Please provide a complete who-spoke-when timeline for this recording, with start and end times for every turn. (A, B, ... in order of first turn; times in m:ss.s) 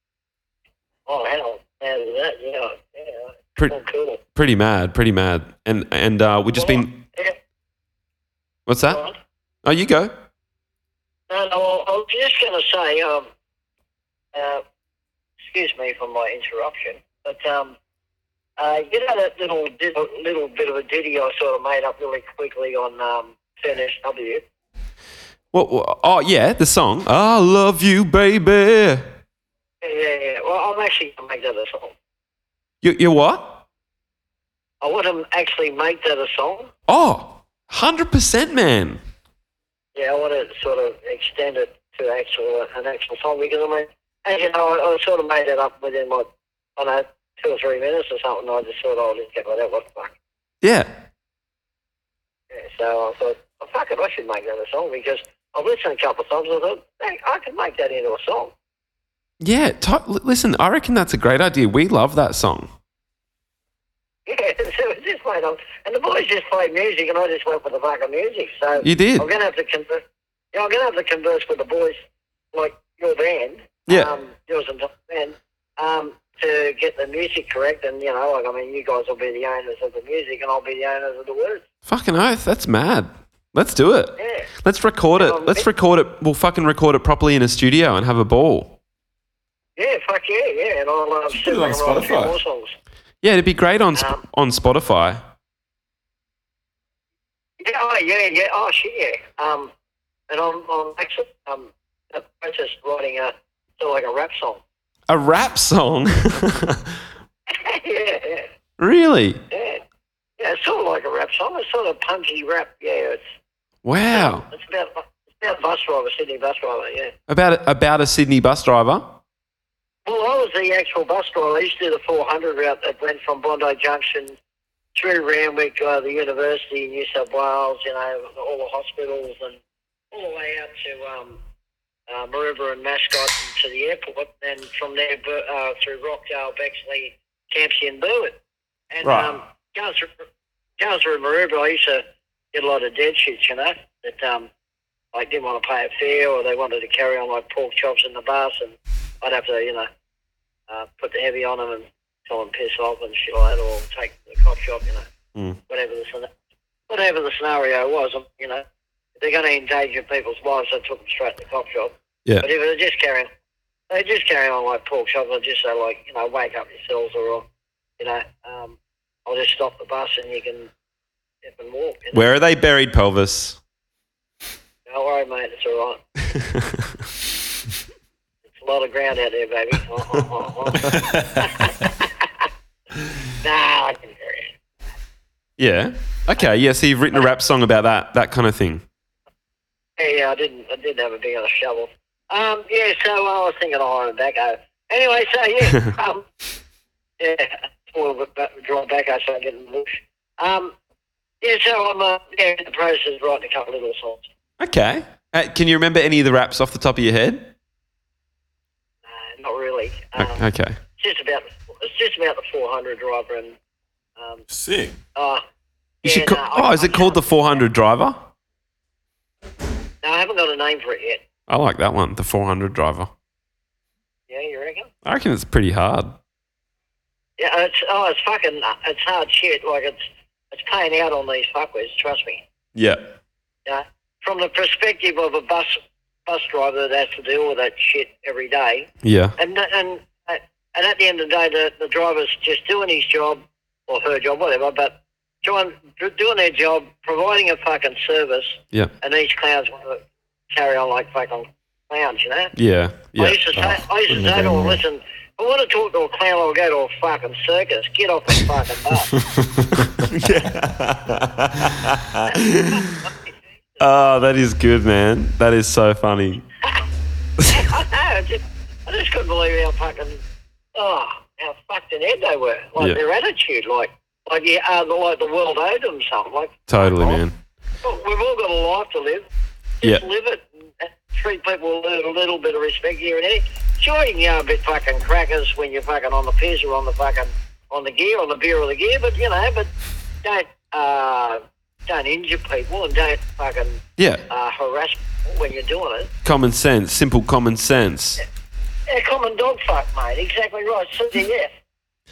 0:01.1-0:04.2 A
0:04.4-0:07.0 B
0:06.6-0:07.4 A
0:08.7-0:09.0 B
0:08.9-0:09.2 A
0:09.6-0:10.1 B
0:11.3-0:13.3 A
0:14.3-0:14.6 A
0:15.4-0:17.8 A
0:18.6-0:24.4 A
0:25.5-0:29.1 B
0:29.8-0:32.0 A
0:32.8-0:33.6 B
0:34.8-0:36.7 A
0:36.9-0:39.0 B
0:40.0-0:50.1 A
0:50.6-0:51.0 B
0:52.5-0:58.5 A
0:59.4-1:02.7 B
1:04.3-1:12.0 A
1:08.8-1:09.3 B
1:12.5-1:21.6 A
1:13.9-1:14.1 B
1:21.9-1:28.8 B
1:24.2-1:24.5 A
1:25.2-1:25.7 A
1:29.8-1:32.7 A
1:31.3-1:32.4 C
1:33.2-1:35.2 B
1:37.6-1:39.7 A
1:40.3-1:44.6 A
1:45.1-1:47.0 B
1:47.5-1:48.5 A
1:48.8-1:49.4 B
1:49.5-1:49.8 A
1:50.4-1:53.2 A
1:53.8-1:54.4 B
1:54.1-1:57.1 A
1:57.3-1:59.2 B
2:00.0-2:04.4 A
2:05.0-2:09.6 A
2:10.1-2:11.4 A
2:12.1-2:18.4 A
2:18.9-2:20.1 A
2:19.0-2:19.4 B
2:20.8-2:24.5 A
2:25.1-2:29.9 A
2:30.7-2:35.1 A
2:35.7-2:36.3 A
2:36.9-2:38.6 A
2:39.2-2:43.3 A
2:43.9-2:47.5 A
2:48.0-2:50.7 A
2:51.4-2:52.3 A
2:52.1-2:53.6 B
2:54.9-2:56.0 A
2:56.4-2:56.9 B
2:58.5-3:02.3 A
3:00.8-3:01.6 C
3:03.4-3:04.5 A
3:05.6-3:08.8 B
3:10.0-3:16.3 A
3:17.2-3:20.7 A
3:21.4-3:24.3 A
3:24.6-3:27.5 B
3:29.1-3:30.5 A
3:30.2-3:30.8 B
3:31.0-3:33.6 A
3:34.2-3:34.4 A
3:34.5-3:35.0 C
3:35.2-3:35.4 A
3:36.0-3:37.6 A
3:36.0-3:38.2 B
3:40.0-3:41.2 A
3:41.5-3:43.1 B
3:44.3-3:44.9 A
3:45.0-3:46.2 B
3:47.4-3:50.0 A
3:50.5-3:52.4 A
3:52.8-3:53.2 B
3:53.7-4:12.5 A
3:59.0-3:59.4 B
4:12.6-4:13.7 B
4:13.2-4:19.2 A
4:13.6-4:14.8 C
4:19.2-4:20.0 C
4:20.0-4:23.1 B
4:23.8-4:26.4 B
4:27.5-4:30.2 A
4:30.8-4:37.2 A
4:36.7-4:37.4 B
4:37.8-4:39.3 A
4:39.8-4:49.7 A
4:50.2-4:56.1 A
4:54.0-4:54.2 B
4:56.2-4:58.2 B
4:58.9-5:01.5 A